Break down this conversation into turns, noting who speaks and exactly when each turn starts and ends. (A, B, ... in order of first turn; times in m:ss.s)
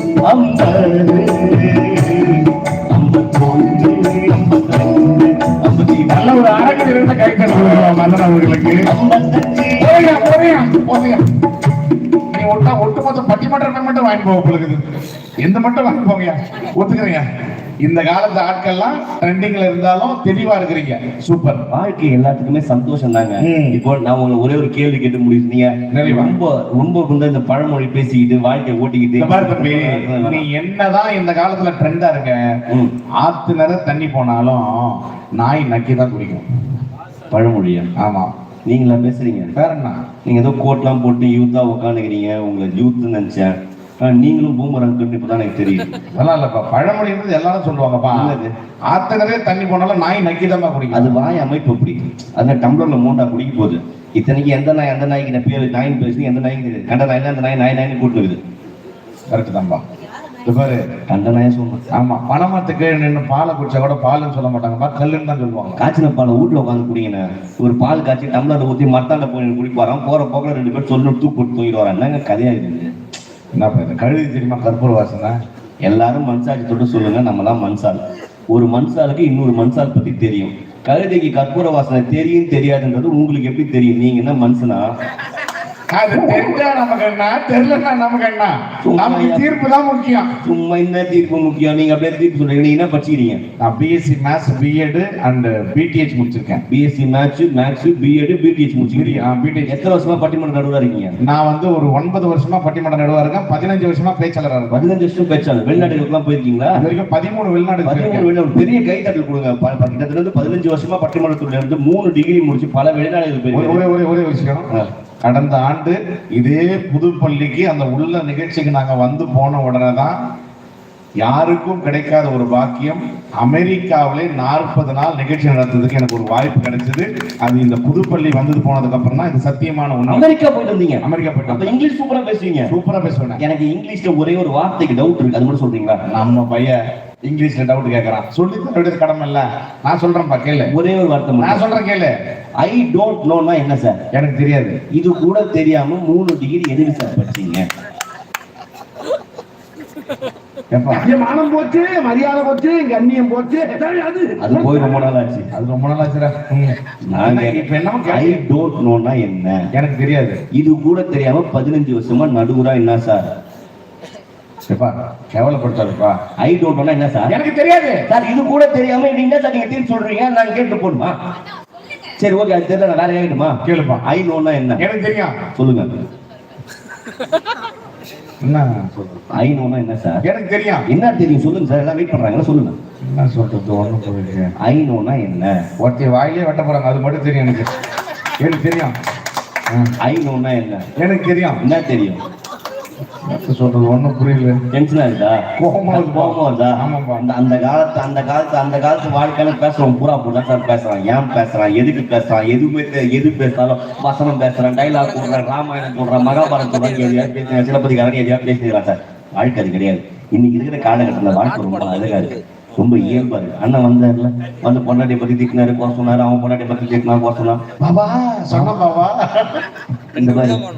0:00.2-0:06.7 A
0:06.1-0:08.8 B
0:08.9-0:10.2 A
0:09.8-0:11.3 B
0:12.3-0:14.8 B
0:15.4-0:17.2 B
0:17.8-0:21.7 B
0:21.7-0:30.5 A
0:23.4-0:23.8 B
0:25.9-0:26.4 B
0:29.2-0:32.4 B
0:33.2-0:36.4 B
0:37.3-0:37.9 A
0:38.0-0:38.3 B
0:38.7-0:39.5 A
0:39.6-0:40.0 B
0:40.3-0:45.9 A
0:46.2-0:48.4 B
0:48.1-0:48.5 A
0:48.9-0:51.2 B
0:50.9-0:58.4 A
0:59.3-0:59.8 B
1:00.4-1:00.8 B
1:01.1-1:01.8 A
1:01.9-1:05.8 B
1:05.8-1:12.9 A
1:13.6-1:15.4 B
1:15.8-1:18.0 A
1:18.5-1:24.8 A
1:25.9-1:30.3 B
1:26.2-1:26.5 A
1:28.8-1:29.6 A
1:30.4-1:33.4 A
1:33.6-1:36.6 B
1:36.7-1:41.2 A
1:38.9-1:39.7 B
1:41.2-1:44.8 B
1:44.7-1:46.8 A
1:46.8-1:48.3 B
1:47.8-1:53.8 A
1:53.5-1:54.7 B
1:55.2-2:00.2 B
2:01.2-2:10.2 B
2:10.1-2:12.7 A
2:11.0-2:11.7 B
2:12.7-2:13.4 B
2:13.4-2:16.0 A
2:16.1-2:20.7 B
2:20.7-2:21.6 A
2:21.4-2:22.1 B
2:22.6-2:24.0 A
2:24.1-2:24.8 B
2:24.9-2:27.6 A
2:30.7-2:31.1 B
2:31.0-2:34.6 C
2:34.4-2:35.5 A
2:35.5-2:38.4 B
2:37.1-2:39.6 A
2:39.8-2:40.4 B
2:40.5-2:43.2 A
2:44.7-2:46.2 B
2:46.4-2:47.4 A
2:47.3-2:48.0 B
2:48.1-2:51.1 A
2:52.2-2:54.8 A
2:53.6-2:54.0 B
2:54.8-2:55.3 B
2:55.6-2:55.9 A
2:58.4-2:59.1 B
2:59.3-3:00.2 A
3:00.2-3:00.8 B
3:00.9-3:02.8 A
3:03.1-3:04.5 B
3:04.6-3:05.6 A
3:05.8-3:07.7 B
3:08.4-3:08.9 B
3:10.0-3:10.8 A
3:11.0-3:11.6 B
3:11.6-3:12.2 A
3:13.3-3:14.6 B
3:14.7-3:37.6 A
3:15.6-3:17.2 B
3:37.8-3:39.6 B
3:40.2-3:40.6 A
3:40.2-3:40.5 B